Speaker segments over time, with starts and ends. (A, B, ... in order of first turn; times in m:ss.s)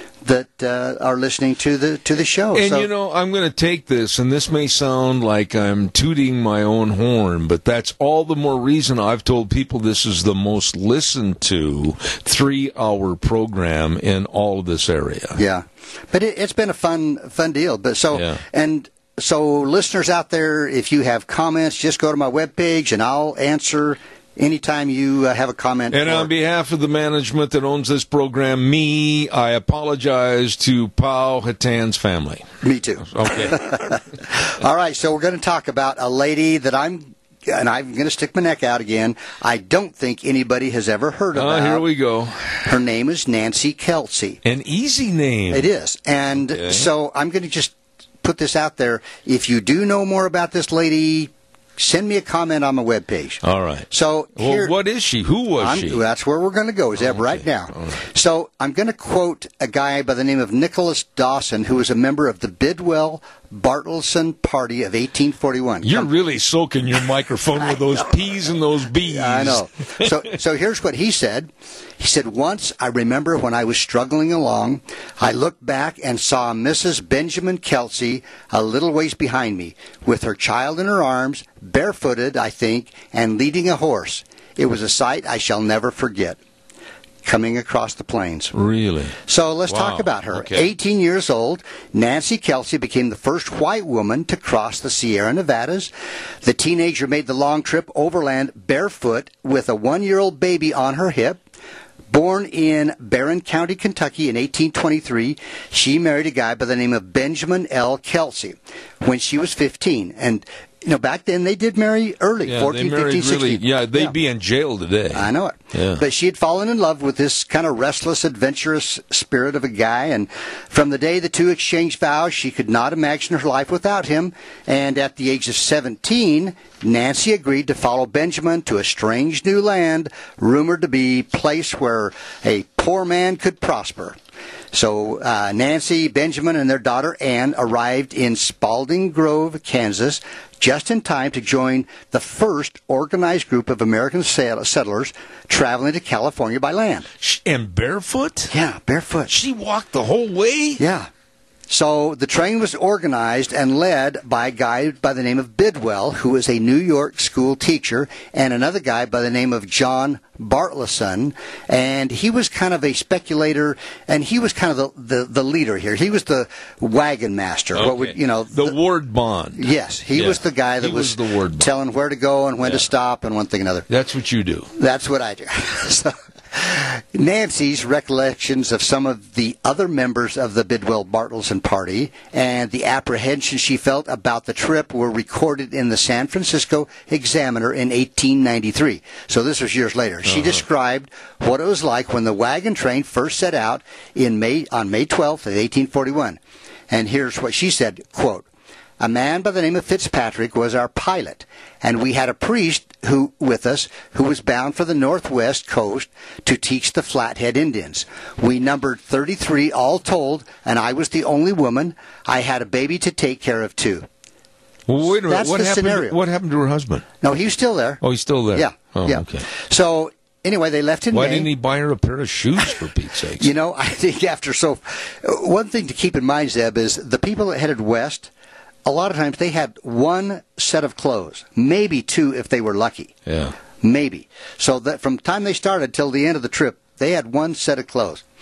0:00.2-0:02.9 A
0:02.5-0:15.4 B
0:15.4-0:26.3 A
0:18.1-0:18.4 B
0:25.9-0:32.5 B
0:32.6-0:41.9 A
0:33.0-0:33.9 B
0:41.3-0:42.6 B
0:42.6-0:44.4 A
0:44.4-0:45.7 B
0:45.5-0:54.7 A
0:46.4-0:46.9 B
0:53.4-0:56.0 B
0:55.6-1:06.1 A
0:57.0-0:58.0 B
1:05.8-1:10.1 B
1:09.0-1:26.4 A
1:27.2-1:28.5 A
1:28.5-1:29.2 B
1:29.2-1:35.9 A
1:29.7-1:30.7 B
1:36.4-1:41.4 A
1:42.1-1:54.1 A
1:52.4-1:56.0 B
1:55.1-2:14.2 A
2:14.7-2:27.0 A
2:27.2-2:28.5 B
2:28.5-2:29.3 A
2:29.3-2:30.8 B
2:30.8-2:31.1 A
2:31.7-2:48.7 A
2:47.7-2:51.7 B
2:49.6-2:53.9 A
2:53.9-2:54.7 B
2:54.7-3:16.4 A
3:10.2-3:10.6 B
3:16.9-3:18.4 A
3:19.0-3:34.1 A
3:34.9-3:37.0 B
3:35.2-3:36.2 A
3:37.2-3:38.0 A
3:38.0-3:39.5 B
3:38.5-3:41.5 A
3:41.1-3:43.5 B
3:43.4-3:48.3 A
3:48.8-3:53.1 A
3:53.2-3:53.5 B
3:53.8-3:58.2 A